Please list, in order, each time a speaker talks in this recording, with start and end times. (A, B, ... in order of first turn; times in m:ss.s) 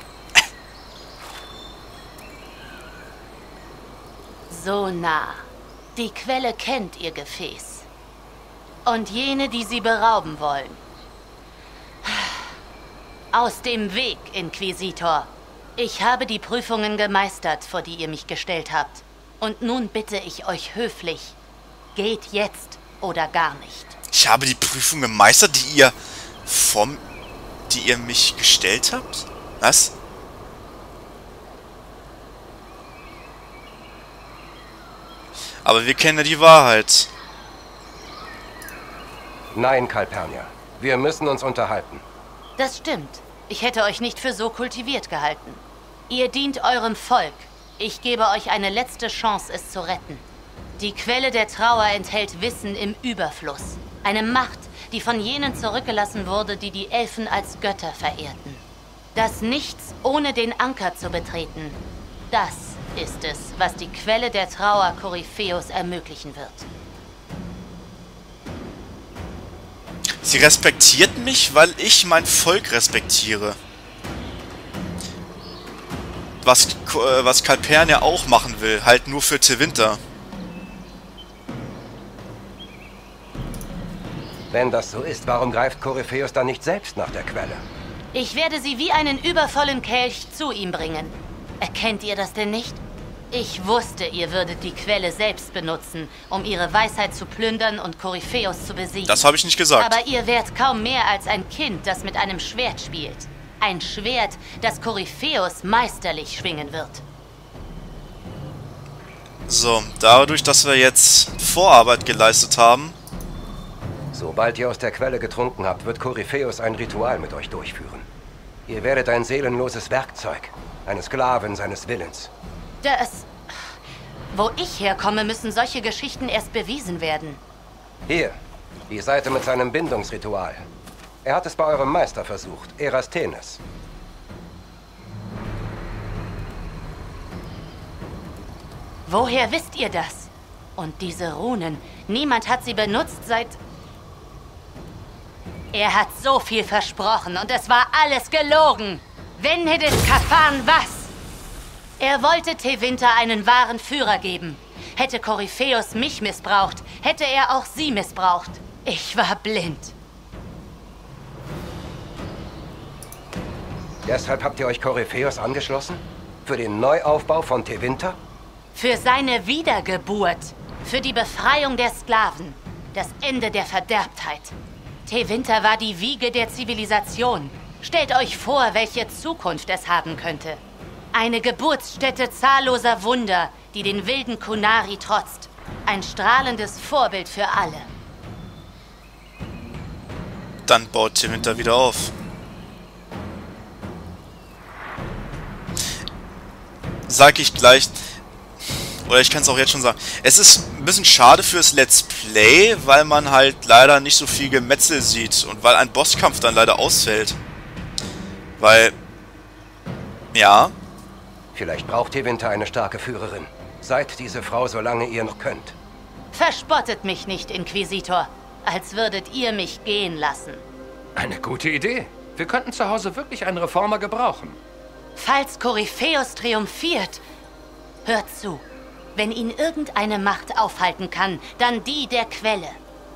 0:04.5-0:07.9 A
0:08.8-0:10.8 A
0:12.0-0:12.5 A
0:13.3-0:21.4 A
0:21.9-0:24.0 A
0:24.1-0:25.9 B
0:26.4-0:27.0 B
0:27.7-0:29.9 B
0:35.6-0:37.1 B
0:39.5-0:42.0 C
0:42.6-0:50.2 A
0:50.8-0:58.6 A
0:59.1-1:01.8 A
1:02.3-1:06.7 A
1:10.2-1:13.6 B
1:16.4-1:20.0 B
1:24.5-1:27.6 C
1:28.1-1:32.8 A
1:33.3-1:39.2 A
1:39.1-1:40.0 B
1:39.8-1:47.0 A
1:49.5-1:53.0 B
1:54.1-1:58.1 C
1:58.7-2:02.3 C
2:02.8-2:03.7 A
2:04.3-2:07.4 A
2:08.1-2:08.4 C
2:08.9-2:10.7 C
2:11.2-2:13.6 C
2:19.0-2:23.6 A
2:25.7-2:31.1 A
2:32.0-2:39.9 A
2:44.0-2:48.2 C
2:48.7-2:54.5 A
2:55.0-3:00.6 A
3:01.1-3:07.9 A
3:10.6-3:12.1 B
3:17.1-3:18.0 B
3:19.0-3:27.4 B
3:28.6-3:28.9 B
3:30.3-3:30.7 B
3:31.5-3:35.8 C
3:36.3-3:40.6 A
3:41.2-3:44.6 D
3:45.2-3:47.2 A
3:48.0-3:48.6 A
3:49.1-3:52.8 A